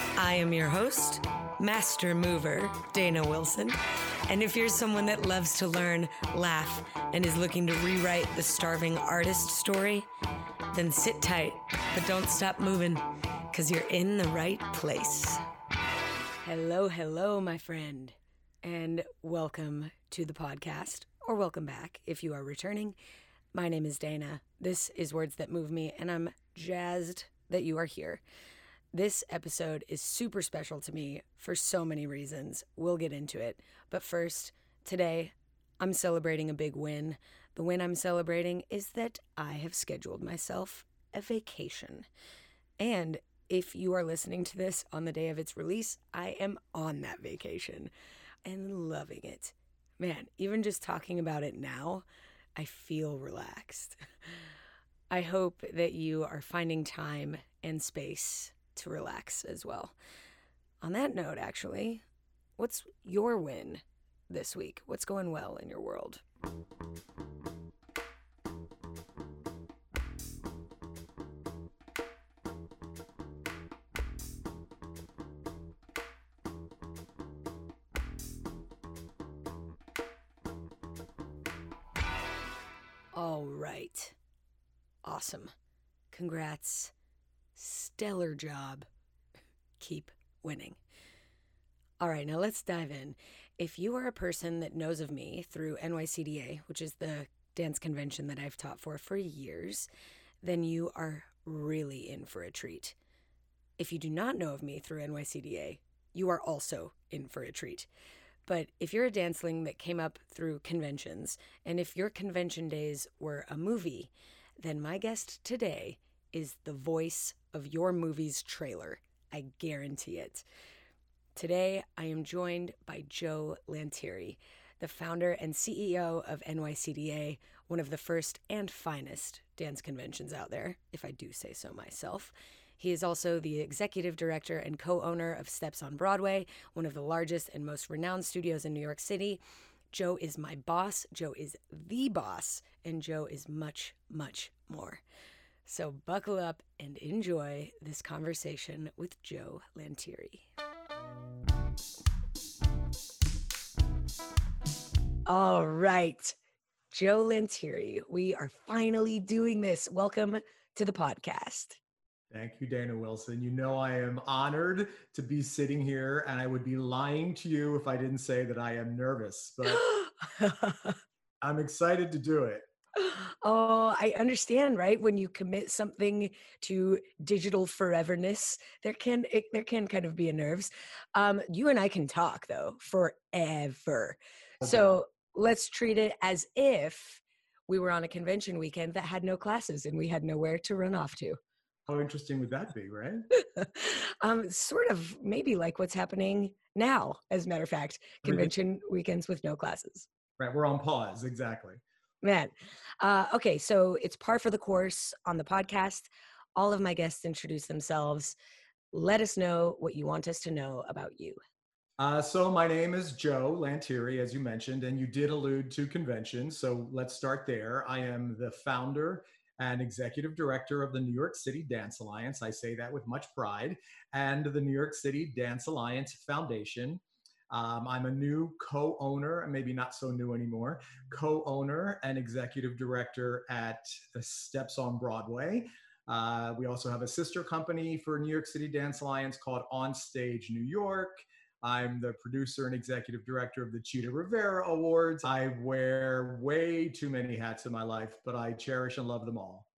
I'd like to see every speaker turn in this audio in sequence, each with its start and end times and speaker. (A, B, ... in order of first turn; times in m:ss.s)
0:00.2-0:10.1 A
0:10.7-0:15.4 A
0:16.4-0:23.0 A
0:23.5-0:28.2 A
0:28.9-0:42.1 A
0:42.8-0:47.9 A
0:48.4-0:52.0 A
0:52.6-0:54.0 A
0:55.1-1:00.0 A
1:00.8-1:02.0 A
1:02.6-1:06.2 A
1:23.1-1:24.2 A
1:25.0-1:25.5 A
1:26.1-1:26.9 A
1:27.6-1:28.9 A
1:29.8-1:30.8 A
1:32.0-1:39.9 A
1:40.4-1:43.0 A
1:43.8-1:47.9 A
1:48.5-2:00.5 A
2:01.4-2:19.4 A
2:19.9-2:25.0 A
2:25.7-2:30.5 A
2:35.3-2:36.4 A
2:36.9-2:41.8 A
2:42.3-2:49.9 B
2:49.7-2:51.0 A
2:51.4-2:52.6 B
2:53.0-3:11.4 A
3:04.6-3:04.9 B
3:11.9-3:13.3 B
3:13.4-3:20.1 A
3:18.2-3:18.5 B
3:20.4-3:21.8 B
3:22.2-3:28.4 A
3:28.9-3:31.4 A
3:32.0-4:09.7 B